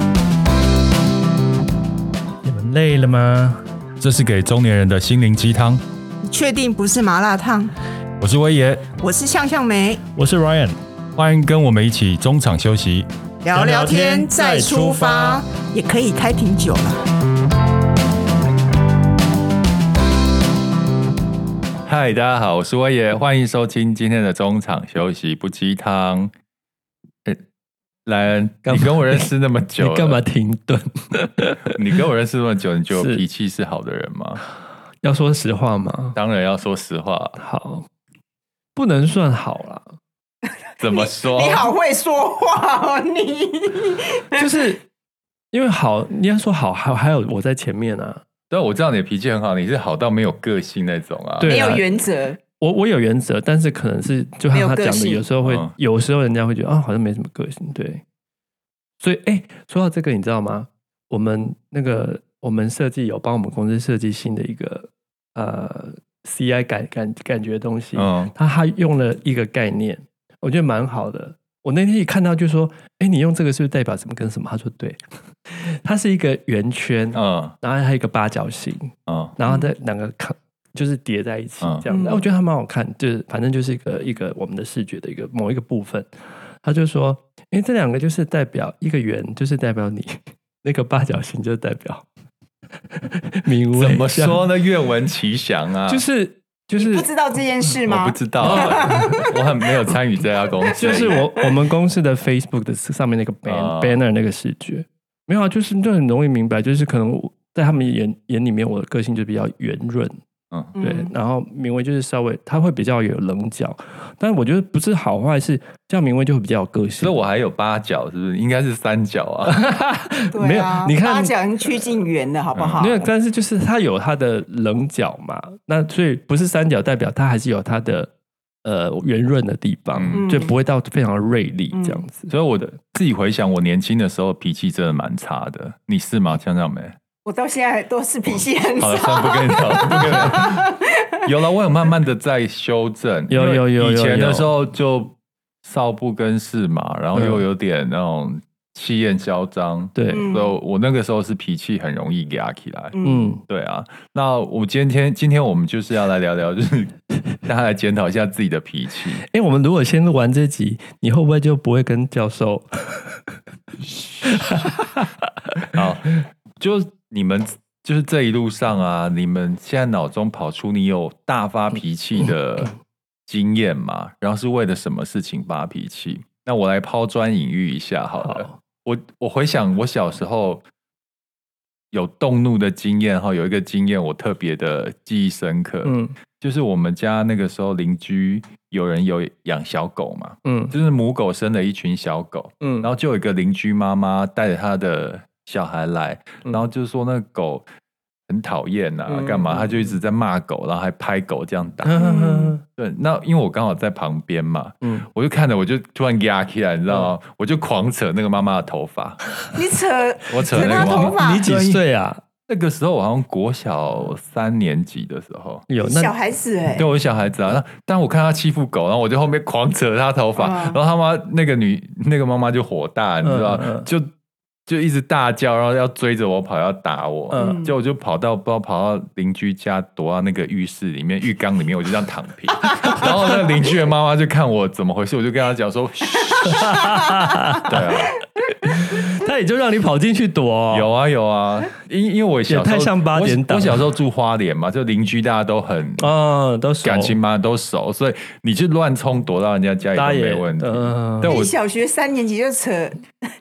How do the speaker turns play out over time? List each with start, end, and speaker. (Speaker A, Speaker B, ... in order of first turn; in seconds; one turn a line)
Speaker A: 2.4-3.6
Speaker B: 4.0-5.8
Speaker C: 6.2-7.7
Speaker B: 8.2-8.8
Speaker C: 9.0-10.0
Speaker A: 10.2-10.8
Speaker B: 11.2-13.1
Speaker C: 13.4-17.0
Speaker A: 13.5-15.4
Speaker B: 21.9-26.3
Speaker B: 28.0-30.2
Speaker A: 28.6-29.3
Speaker A: 29.8-31.8
Speaker B: 31.6-34.4
Speaker A: 32.9-33.2
Speaker A: 35.0-36.2
Speaker B: 36.1-37.4
Speaker A: 37.4-37.9
Speaker A: 38.8-39.9
Speaker B: 40.8-41.7
Speaker C: 40.9-44.5
Speaker A: 44.4-44.8
Speaker A: 45.5-48.2
Speaker B: 48.5-51.5
Speaker A: 51.4-51.8
Speaker C: 51.4-52.4
Speaker A: 52.6-58.0
Speaker C: 54.5-55.2
Speaker B: 55.4-55.7
Speaker A: 59.0-86.1
Speaker B: 68.0-68.3
Speaker B: 77.1-77.5
Speaker B: 79.1-79.3
Speaker C: 79.5-79.7
Speaker B: 81.6-81.9
Speaker C: 81.9-82.2
Speaker A: 86.6-92.0
Speaker A: 92.9-94.4
Speaker B: 93.7-96.0
Speaker A: 95.9-97.1
Speaker C: 96.7-99.3
Speaker B: 97.8-101.2
Speaker A: 98.4-99.2
Speaker A: 100.7-110.2
Speaker C: 100.8-101.5
Speaker B: 103.5-104.0
Speaker C: 110.7-111.1
Speaker A: 110.8-117.2
Speaker B: 117.0-119.6
Speaker A: 119.5-121.3
Speaker C: 120.3-123.0
Speaker B: 122.5-122.8
Speaker A: 122.8-128.1
Speaker A: 128.6-132.3
Speaker B: 129.9-130.2
Speaker C: 130.1-130.5
Speaker C: 131.7-132.0
Speaker B: 132.3-136.9
Speaker C: 137.2-141.2
Speaker B: 138.3-140.6
Speaker B: 141.2-152.9
Speaker A: 143.3-144.5
Speaker A: 147.1-147.4
Speaker A: 149.9-150.3
Speaker C: 150.1-150.5
Speaker C: 152.9-153.3
Speaker A: 153.0-153.4
Speaker B: 153.5-159.2
Speaker A: 159.2-163.4
Speaker A: 164.2-165.7
Speaker B: 165.7-172.7
Speaker B: 173.3-180.6
Speaker A: 178.2-178.5
Speaker B: 181.9-197.7
Speaker A: 185.8-186.1
Speaker A: 190.4-190.7
Speaker A: 192.6-192.9
Speaker B: 198.3-202.0
Speaker A: 199.1-199.9
Speaker A: 201.8-202.6
Speaker C: 201.9-202.5
Speaker B: 202.8-209.2
Speaker A: 204.8-205.1
Speaker C: 209.5-211.5
Speaker B: 210.3-211.8
Speaker A: 210.5-212.2
Speaker B: 212.4-215.7
Speaker A: 215.7-216.1
Speaker C: 215.8-216.9
Speaker B: 216.7-224.1
Speaker C: 220.3-220.8
Speaker A: 223.2-223.9
Speaker B: 224.7-236.8
Speaker A: 227.3-227.7
Speaker C: 227.3-227.7
Speaker A: 236.4-237.8
Speaker B: 237.6-238.2
Speaker A: 238.5-240.9
Speaker B: 240.7-246.1
Speaker A: 242.4-243.8
Speaker A: 246.0-247.2
Speaker B: 246.8-251.5
Speaker A: 249.9-251.3
Speaker C: 251.2-253.2